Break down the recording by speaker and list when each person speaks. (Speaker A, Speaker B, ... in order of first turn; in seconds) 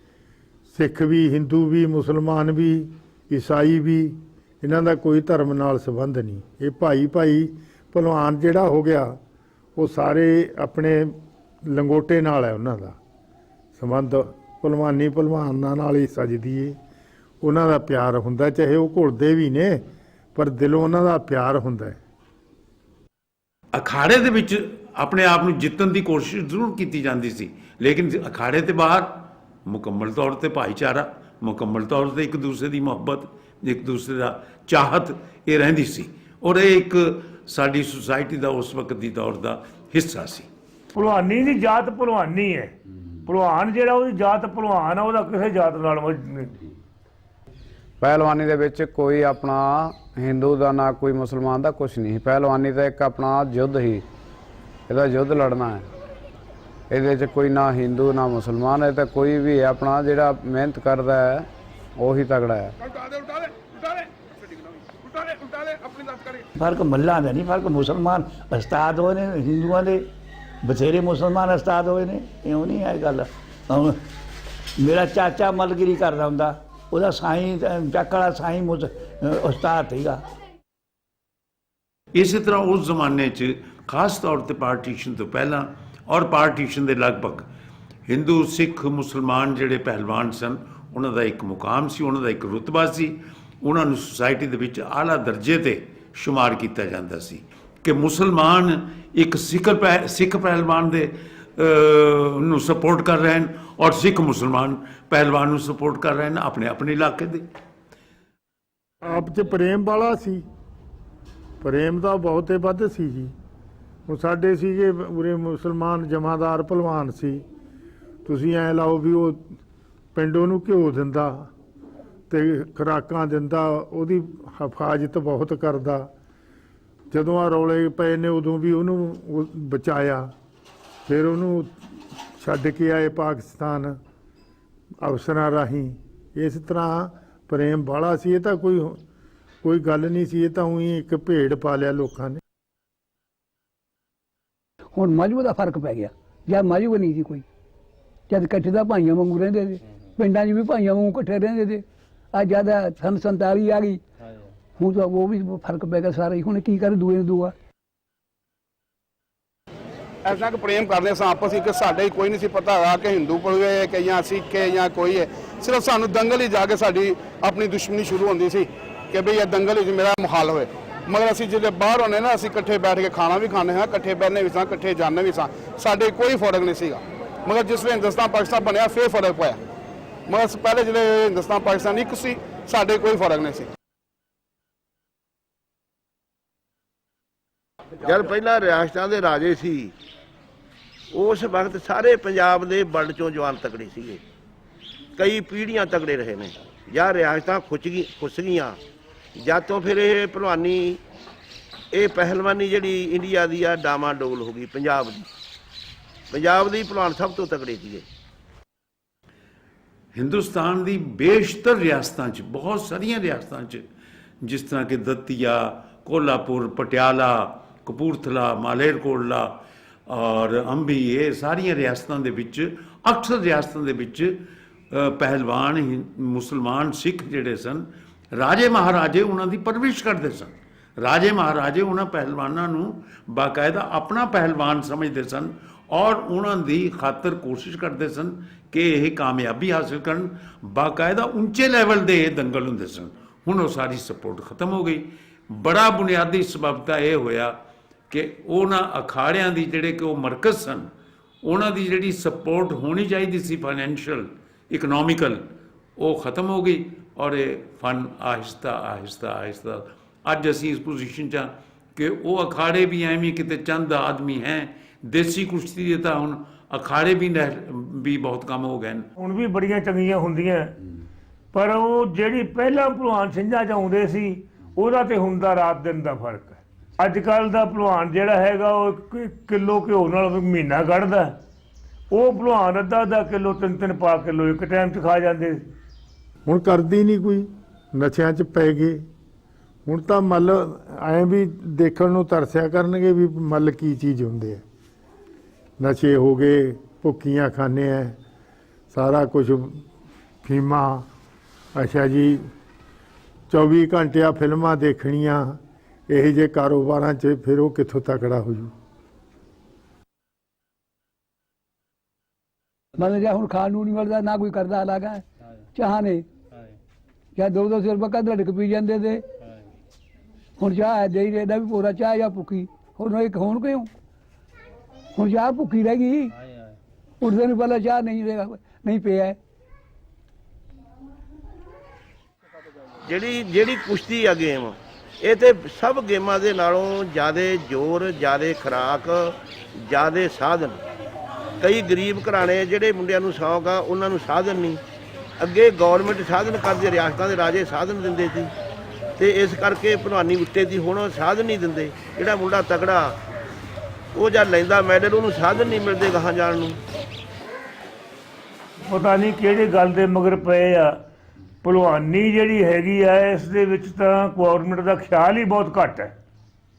Speaker A: 0.7-9.2, 9.8-13.0, 13.8-16.8, 17.4-22.0, 109.0-110.4, 111.6-113.3, 114.1-117.4, 118.2-119.5, 120.2-121.5, 122.3-126.1, 127.1-130.3, 131.1-134.0, 135.0-139.0, 139.6-142.4, 286.5-289.1, 289.9-294.6, 295.8-298.2, 298.9-299.9, 300.4-301.1, 301.8-302.5, 303.5-308.7
Speaker B: 23.7-40.5, 82.1-87.5, 88.1-107.5, 210.2-213.8, 214.4-247.6, 248.1-250.9, 251.4-255.4, 256.0-269.1
Speaker C: 40.9-42.8, 43.3-46.5, 269.2-270.7, 271.5-281.4, 282.1-285.7, 358.8-361.0, 361.6-366.1
Speaker D: 48.0-54.0, 54.9-55.9, 56.9-62.7
Speaker E: 63.0-64.1, 64.9-66.5, 160.2-179.6, 180.3-183.7
Speaker F: 66.6-70.1, 70.6-74.0, 74.8-80.2
Speaker G: 144.9-147.4, 148.3-154.0, 154.8-157.5, 313.0-316.3, 317.4-319.3, 320.6-323.9, 325.1-326.4, 327.2-329.4
Speaker H: 188.0-189.9, 191.1-194.2, 195.2-198.8, 199.4-201.0, 201.9-205.3, 206.3-208.1, 333.0-340.8, 341.6-344.8, 345.4-348.5, 349.2-353.2, 354.1-356.8